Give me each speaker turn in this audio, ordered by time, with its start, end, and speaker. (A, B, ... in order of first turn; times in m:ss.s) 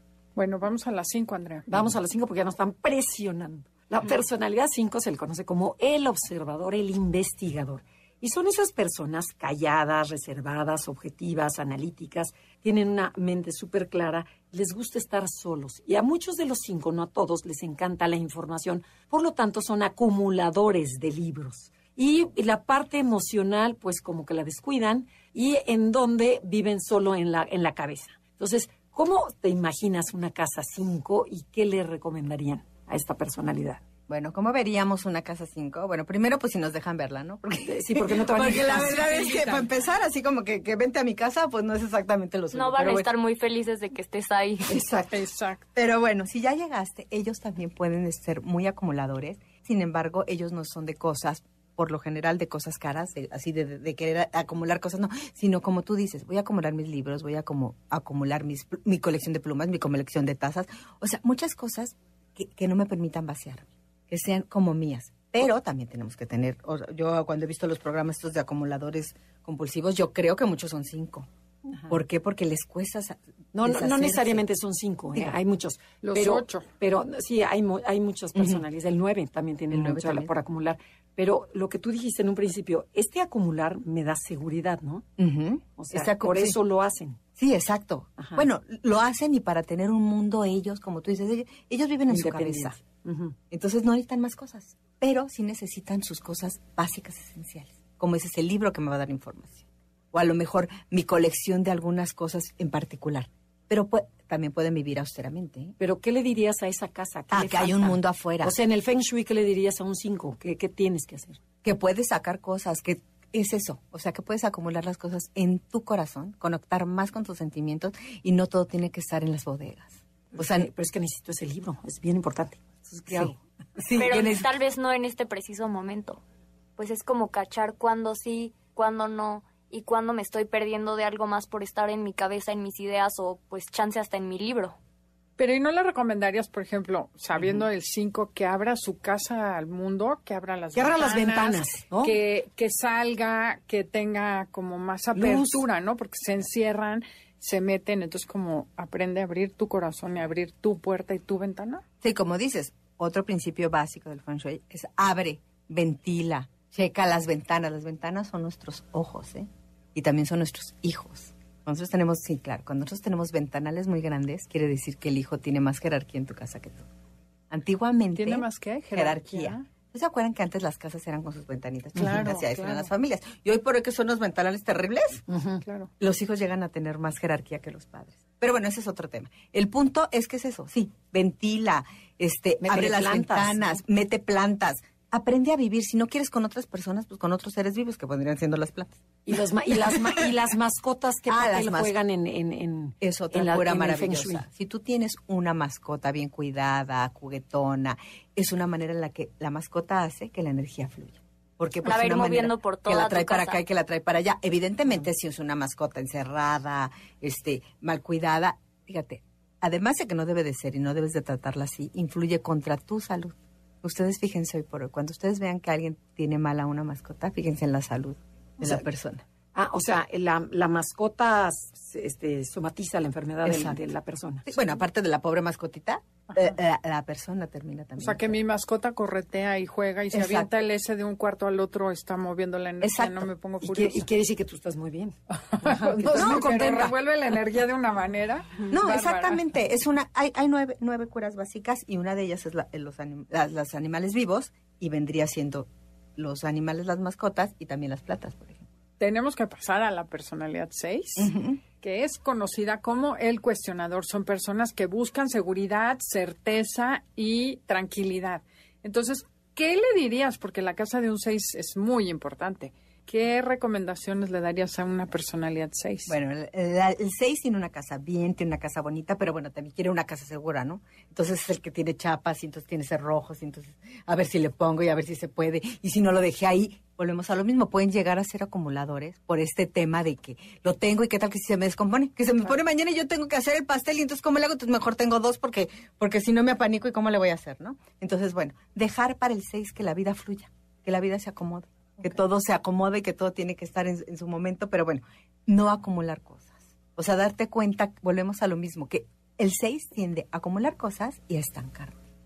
0:00.4-0:01.7 A
0:01.7-0:33.8 B
0:34.1-0:43.1 C
0:37.7-0:39.5 B
0:38.8-0:39.6 A
0:42.5-0:44.8 D
0:44.7-0:45.1 B
0:45.1-0:45.6 A
0:45.7-1:11.3 C
1:11.7-1:11.9 B
1:11.9-1:14.4 C
1:13.5-1:25.0 B
1:16.0-1:16.6 A
1:18.4-1:18.6 C
1:19.7-1:20.3 C
1:25.2-1:26.6 C
1:25.8-1:27.2 B
1:27.4-1:32.8 C
1:28.2-1:28.4 B
1:32.1-1:33.3 B
1:33.5-1:45.8 C
1:45.8-1:51.4 B
1:47.3-1:48.6 C
1:51.6-2:00.7 C
2:00.3-2:03.4 B
2:03.1-2:04.5 C
2:03.9-2:06.2 D
2:06.8-2:14.8 D
2:15.4-2:31.8 A
2:20.7-2:22.2 B
2:25.2-2:25.6 B
2:32.0-2:46.9 C
2:47.5-2:55.2 C
2:48.1-2:49.6 A
2:52.0-2:52.9 A
2:52.0-2:52.2 B
2:55.3-2:55.6 B
2:55.6-2:55.9 A
2:56.0-3:10.4 C
3:02.6-3:03.8 B
3:09.3-3:14.4 B
3:11.3-3:11.9 C
3:13.0-3:39.2 C
3:21.8-3:23.6 D
3:39.5-3:44.5 B
3:43.4-3:43.8 C
3:44.5-3:48.4 C
3:46.3-3:46.6 A
3:48.0-3:54.1 A
3:50.1-3:50.5 C
3:52.8-3:53.3 C
3:53.6-3:56.9 B
3:55.5-3:59.4 A
3:56.1-3:56.4 C
3:58.7-4:08.6 C
4:09.0-4:26.1 A
4:11.2-4:11.6 C
4:26.1-5:02.0 C